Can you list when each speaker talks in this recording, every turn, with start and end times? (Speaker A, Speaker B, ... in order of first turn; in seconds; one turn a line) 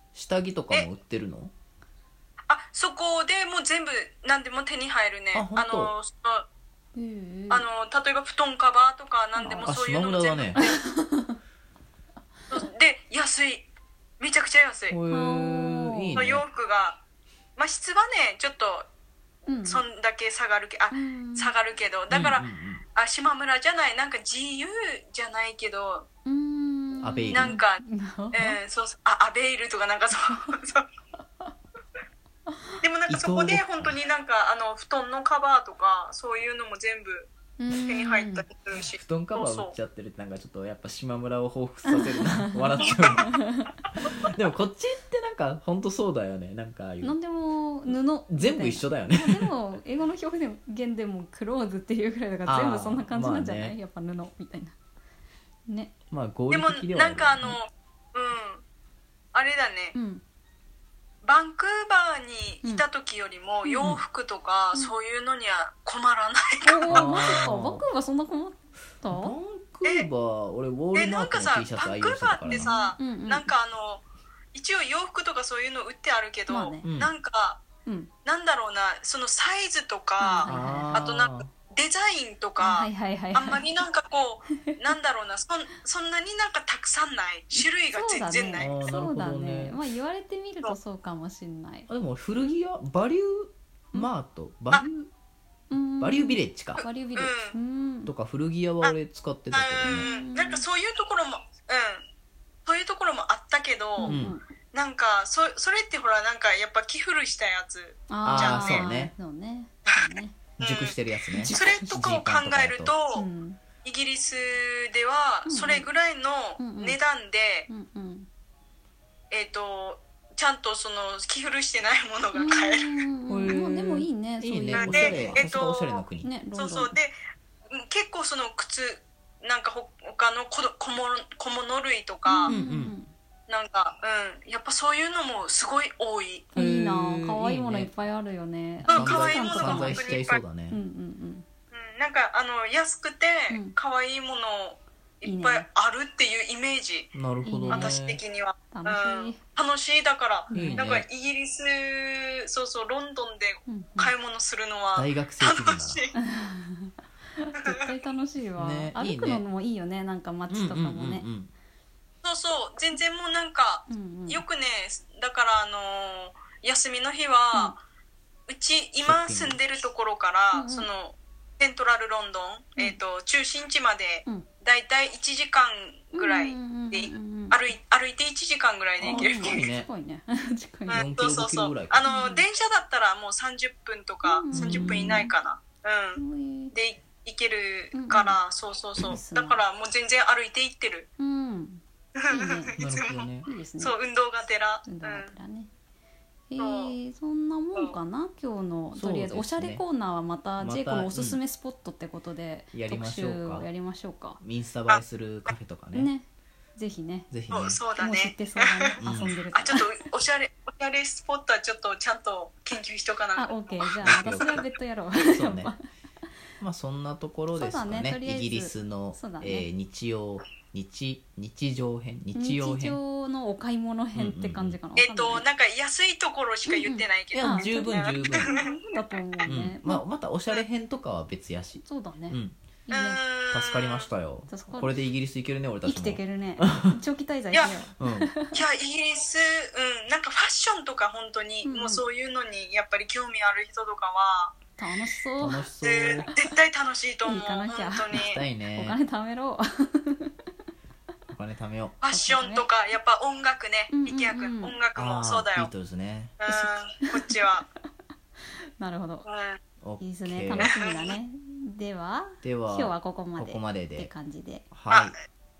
Speaker A: 0.1-1.5
Speaker B: 2.5-6.5
Speaker A: 5.3-5.9
Speaker C: 6.9-7.6
Speaker B: 7.5-10.8
Speaker C: 9.3-9.7
Speaker A: 9.6-10.7
Speaker C: 10.6-11.4
Speaker B: 12.5-13.7
Speaker B: 14.2-15.0
Speaker A: 14.9-16.4
Speaker C: 15.1-16.2
Speaker B: 16.1-17.0
Speaker B: 17.6-18.9
Speaker C: 19.5-19.8
Speaker B: 19.6-26.1
Speaker C: 20.9-21.5
Speaker A: 22.1-22.8
Speaker C: 26.2-28.6
Speaker A: 27.0-27.6
Speaker B: 27.3-27.8
Speaker B: 28.3-30.9
Speaker B: 32.8-39.7
Speaker A: 33.1-34.0
Speaker C: 37.6-38.4
Speaker A: 38.9-43.3
Speaker C: 41.9-43.7
Speaker A: 44.0-47.2
Speaker C: 47.0-54.8
Speaker A: 48.3-49.5
Speaker A: 52.4-53.8
Speaker C: 55.7-55.9
Speaker A: 56.1-57.6
Speaker B: 56.5-58.6
Speaker B: 59.3-60.0
Speaker C: 59.9-60.2
Speaker B: 61.2-67.4
Speaker C: 63.6-64.0
Speaker C: 66.6-69.3
Speaker A: 66.9-67.8
Speaker A: 69.1-72.7
Speaker B: 70.9-77.6
Speaker C: 72.5-73.5
Speaker C: 76.5-76.9
Speaker A: 76.8-77.1
Speaker C: 77.8-78.1
Speaker B: 78.2-88.8
Speaker C: 80.2-81.1
Speaker A: 80.5-81.5
Speaker C: 82.6-83.6
Speaker C: 87.5-91.9
Speaker A: 88.6-89.8
Speaker A: 91.9-95.1
Speaker C: 95.7-98.1
Speaker A: 96.0-96.8
Speaker B: 96.8-97.5
Speaker A: 98.0-100.0
Speaker B: 99.5-102.0
Speaker C: 99.8-100.6
Speaker B: 102.7-108.9
Speaker C: 104.0-104.4
Speaker A: 104.0-104.4
Speaker C: 108.1-110.4
Speaker A: 108.2-109.1
Speaker A: 110.6-112.9
Speaker B: 110.6-113.3
Speaker C: 111.3-111.7
Speaker C: 113.1-113.6
Speaker B: 113.8-117.7
Speaker C: 115.5-115.9
Speaker C: 116.6-117.0
Speaker C: 117.7-118.3
Speaker B: 119.3-123.0
Speaker C: 122.3-125.4
Speaker A: 123.3-126.3
Speaker B: 124.7-127.2
Speaker C: 126.2-127.0
Speaker B: 127.7-132.6
Speaker C: 132.2-133.1
Speaker A: 132.5-132.9
Speaker B: 133.5-136.5
Speaker C: 136.5-141.4
Speaker A: 136.5-137.9
Speaker B: 138.9-140.4
Speaker A: 138.9-140.8
Speaker B: 141.7-147.1
Speaker C: 143.5-143.8
Speaker C: 145.2-145.7
Speaker A: 147.1-148.2
Speaker C: 147.4-147.9
Speaker B: 147.7-156.1
Speaker C: 148.7-149.4
Speaker C: 150.5-150.9
Speaker A: 150.5-151.0
Speaker C: 153.7-154.1
Speaker A: 154.9-156.0
Speaker C: 156.2-161.3
Speaker B: 157.5-157.9
Speaker A: 158.6-159.4
Speaker A: 160.5-161.5
Speaker B: 162.2-167.8
Speaker C: 163.9-164.4
Speaker B: 168.5-179.7
Speaker A: 169.0-169.6
Speaker C: 170.5-170.9
Speaker C: 176.1-177.6
Speaker C: 179.0-181.1
Speaker A: 179.1-179.9
Speaker B: 180.9-191.1
Speaker A: 180.9-182.0
Speaker C: 182.0-182.5
Speaker C: 184.2-185.3
Speaker A: 184.5-185.3
Speaker C: 186.2-186.7
Speaker C: 187.9-188.4
Speaker C: 189.0-189.6
Speaker C: 191.2-192.8
Speaker B: 192.2-195.3
Speaker A: 192.8-193.5
Speaker C: 193.4-194.0
Speaker C: 194.8-195.7
Speaker C: 196.5-204.4
Speaker B: 196.6-196.9
Speaker A: 198.9-199.8
Speaker A: 200.6-201.4
Speaker A: 202.7-203.7
Speaker A: 204.4-206.1
Speaker B: 204.9-205.5
Speaker C: 205.9-207.3
Speaker A: 207.3-207.8
Speaker B: 207.5-209.0
Speaker C: 207.9-209.9
Speaker A: 209.0-209.3
Speaker B: 209.5-214.7
Speaker C: 213.3-215.8
Speaker A: 214.0-214.6
Speaker A: 215.2-215.7
Speaker A: 216.6-223.0
Speaker C: 217.5-219.7
Speaker C: 222.3-225.4
Speaker A: 224.1-224.8
Speaker B: 224.9-228.7
Speaker C: 226.7-230.0
Speaker A: 227.3-228.6
Speaker A: 229.4-232.6
Speaker C: 231.8-233.3
Speaker B: 232.9-234.1
Speaker A: 233.5-236.9
Speaker C: 234.4-235.0
Speaker C: 235.8-238.6
Speaker A: 238.0-238.3
Speaker B: 238.5-244.6
Speaker C: 241.6-242.0
Speaker C: 244.8-245.7
Speaker A: 245.4-246.3
Speaker B: 245.8-248.4
Speaker C: 247.2-250.3
Speaker A: 248.1-249.0
Speaker A: 251.3-252.0
Speaker B: 252.0-255.7
Speaker C: 252.1-252.7
Speaker C: 253.9-254.8
Speaker A: 254.9-256.4
Speaker B: 256.4-257.6
Speaker C: 256.5-257.4
Speaker C: 258.8-259.2
Speaker B: 259.2-259.6
Speaker A: 259.8-260.8
Speaker C: 260.0-264.7
Speaker B: 260.6-261.1
Speaker A: 262.4-264.1
Speaker A: 264.7-265.1
Speaker B: 264.9-265.2